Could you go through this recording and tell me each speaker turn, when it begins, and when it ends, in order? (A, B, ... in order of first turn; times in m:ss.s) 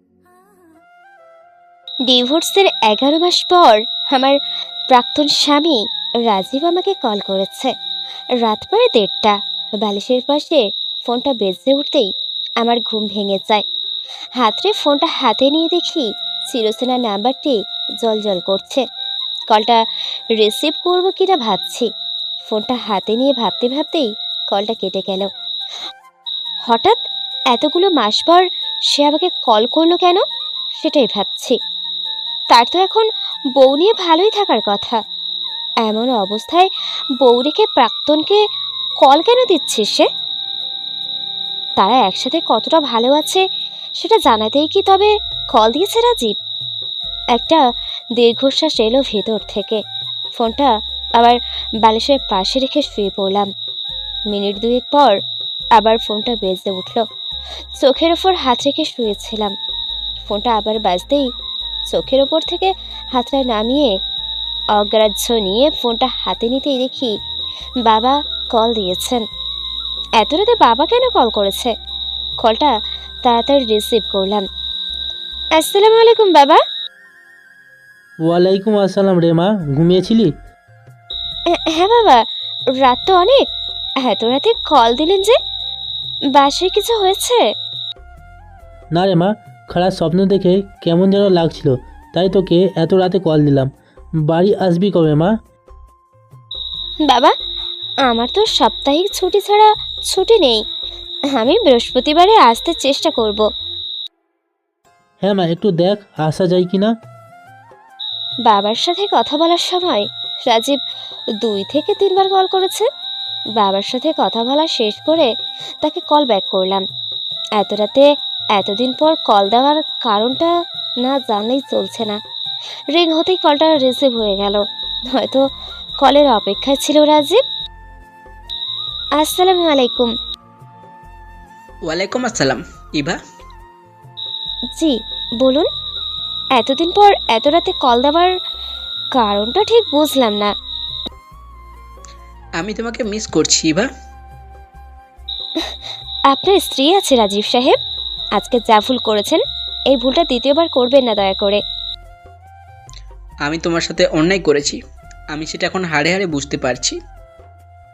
0:02.1-0:04.4 A
0:04.9-0:07.7 A
0:08.4-0:12.1 A
0:12.6-0:13.6 A
0:14.4-0:18.8 A
0:19.5-0:19.8 A
0:20.4-0:21.9 A
0:22.5-0:25.3 A
0:26.7-0:27.0 A
0:27.5-0:30.2 A
0:30.8-0:31.6 A
0:32.5-0:35.0 A
0:35.8-0:36.7 A
0:37.2-0:38.4 A
0:39.0-0:40.1 A
0:41.8-0:43.4 A
0:44.0-0:46.4 A
0:47.4-0:47.6 A
0:48.2-0:49.8 A
0:50.4-0:53.5 A
0:54.3-0:55.2 A
0:55.8-0:57.0 A
0:57.8-0:59.5 A
1:00.3-1:01.3 A
1:01.9-1:03.9 A
1:04.8-1:07.1 A
1:07.8-1:09.2 A
1:10.2-1:11.7 A
1:12.4-1:14.4 A
1:15.6-1:16.6 A
1:18.2-1:20.3 B
1:21.5-1:22.2 A
1:22.8-1:23.4 A
1:24.0-1:25.4 A
1:26.4-1:27.4 A
1:28.9-1:33.7 B
1:34.3-1:35.3 B
1:37.0-1:37.3 A
1:38.1-1:40.6 A
1:41.4-1:43.4 A
1:45.2-1:46.9 B
1:48.5-1:50.8 A
1:51.4-1:52.9 A
1:53.6-1:55.3 A
1:55.8-1:56.8 A
1:57.6-2:00.5 A
2:01.0-2:02.2 A
2:02.9-2:05.4 A
2:06.0-2:07.4 A
2:09.2-2:10.1 A
2:11.9-2:13.2 C
2:14.8-2:15.7 A
2:16.6-2:18.3 A
2:19.2-2:20.5 A
2:22.6-2:23.9 C
2:26.3-2:27.8 A
2:28.4-2:31.6 A
2:33.4-2:34.8 C
2:35.3-2:37.0 C